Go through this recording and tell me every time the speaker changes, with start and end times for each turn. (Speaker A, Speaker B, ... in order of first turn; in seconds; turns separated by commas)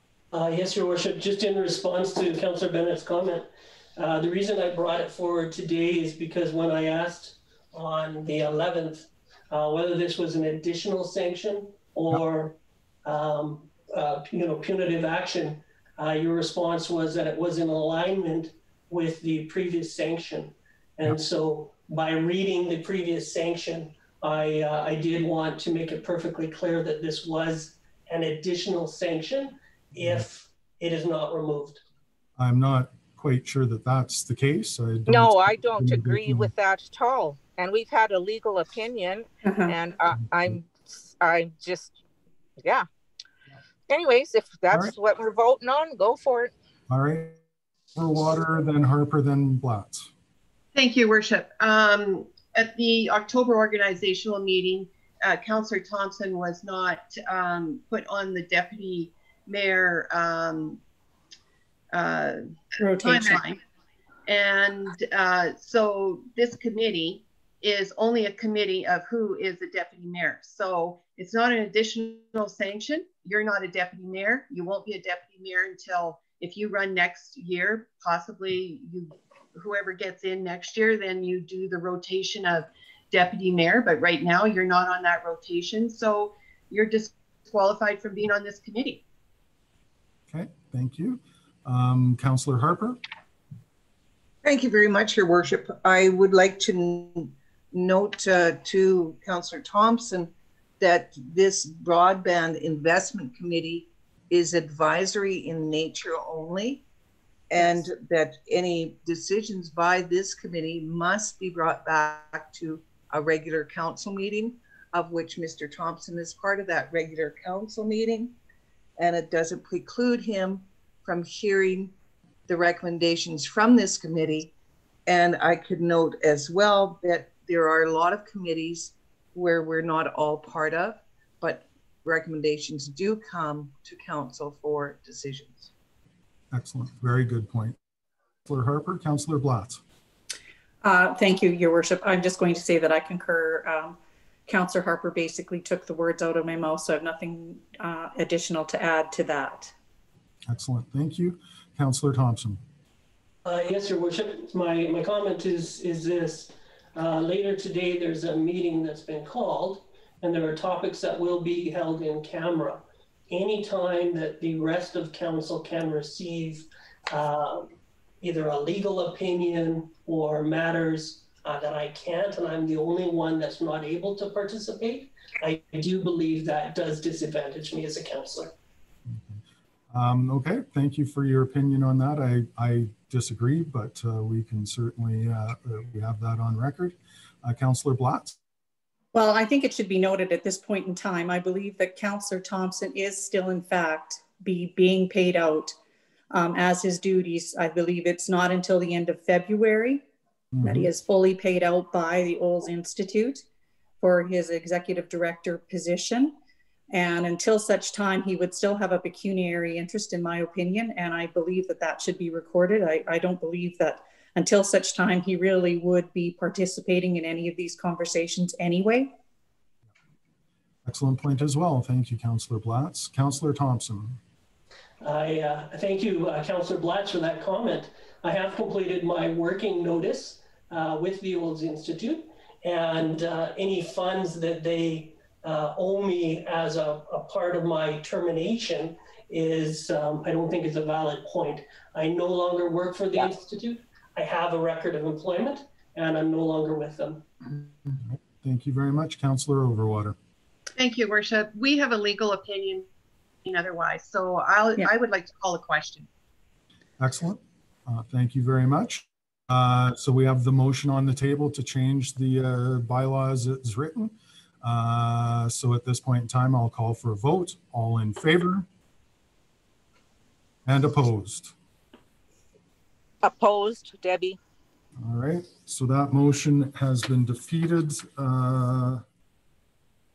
Speaker A: 0.3-31.8, Speaker B: 30.0-30.2, Speaker B: 32.4-36.5, Speaker C: 35.1-42.0, Speaker D: 39.5-39.7, Speaker B: 40.2-40.6, Speaker C: 42.6-42.9, Speaker C: 43.9-46.5, Speaker B: 46.9-47.4, Speaker B: 48.0-50.1, Speaker E: 50.8-60.8, Speaker E: 61.9-62.4, Speaker D: 62.8-63.4, Speaker E: 63.0-63.6, Speaker E: 64.3-89.0, Speaker B: 90.3-93.0, Speaker F: 94.4-106.8, Speaker F: 107.5-118.3, Speaker F: 119.0-121.9, Speaker F: 122.5-124.5, Speaker F: 125.1-135.7, Speaker B: 136.5-137.8, Speaker B: 138.5-139.8, Speaker D: 140.8-149.7, Speaker B: 150.5-152.6, Speaker A: 153.4-178.5, Speaker B: 179.1-179.4, Speaker B: 179.9-188.3, Speaker D: 189.1-195.8, Speaker D: 196.3-200.0, Speaker B: 200.6-200.9, Speaker D: 200.6-203.4, Speaker D: 204.0-206.3, Speaker D: 206.9-219.1, Speaker B: 220.9-224.2, Speaker A: 225.0-247.2, Speaker B: 248.0-250.2, Speaker E: 250.8-252.9, Speaker E: 253.4-256.1, Speaker B: 257.0-268.7, Speaker B: 270.7-271.5, Speaker C: 273.2-274.4, Speaker B: 275.0-279.0